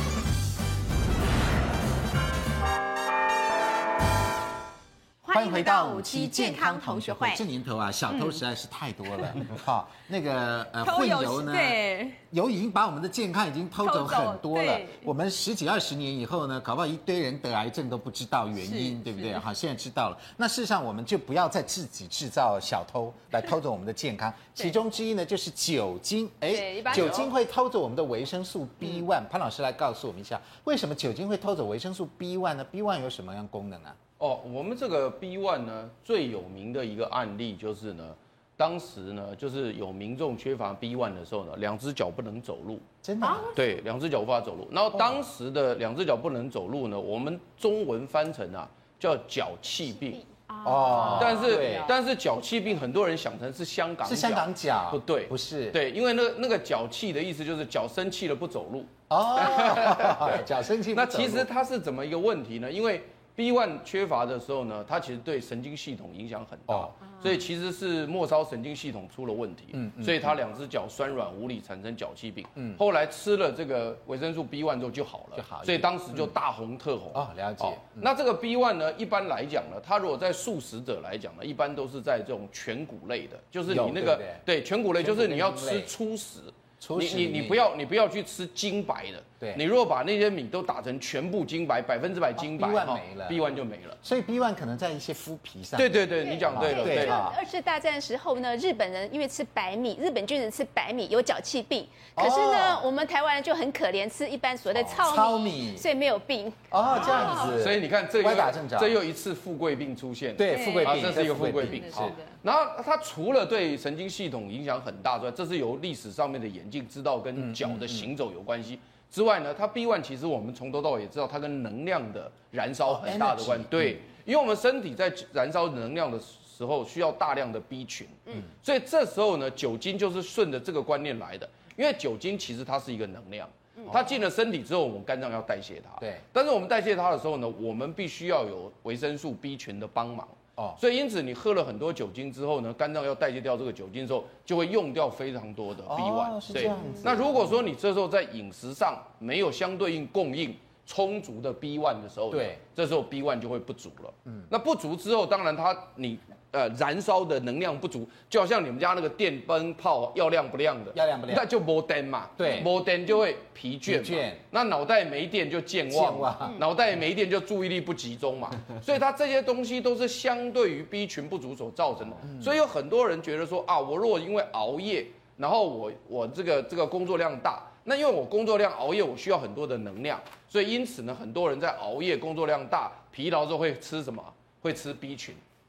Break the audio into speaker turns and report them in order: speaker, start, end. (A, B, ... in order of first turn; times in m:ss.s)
0:05.2-0:07.4 A
0:05.3-0:11.8 B
0:08.1-0:08.4 A
0:10.8-0:12.2 A
0:12.3-0:34.0 B
0:13.8-0:15.0 A
0:18.6-0:19.4 A
0:26.5-0:27.3 A
0:34.2-0:42.8 C
0:43.0-0:43.5 B
0:43.2-0:43.6 A
0:43.5-0:50.2 C
0:50.5-0:51.9 A
0:50.6-0:51.9 B
0:51.0-1:34.0 C
0:54.0-0:55.8 B
0:59.1-1:01.5 B
1:06.7-1:07.2 B
1:09.7-1:10.3 B
1:15.4-1:16.3 B
1:17.1-1:18.1 B
1:23.7-1:24.4 B
1:25.0-1:25.9 B
1:26.8-1:27.7 B
1:32.4-1:33.4 B
1:34.0-1:37.4 B
1:35.8-1:37.2 C
1:36.2-1:47.3 D
1:42.2-1:42.8 B
1:44.7-1:45.9 B
1:46.7-1:49.0 B
1:46.9-3:05.4 C
1:47.0-1:47.6 A
1:50.4-1:52.1 B
1:50.5-1:52.3 A
1:57.4-1:58.1 B
2:02.9-2:04.0 B
2:25.9-2:27.6 B
2:32.3-2:32.6 B
2:40.9-2:41.5 B
2:42.4-2:42.7 B
2:43.9-2:44.4 B
2:45.9-2:46.6 B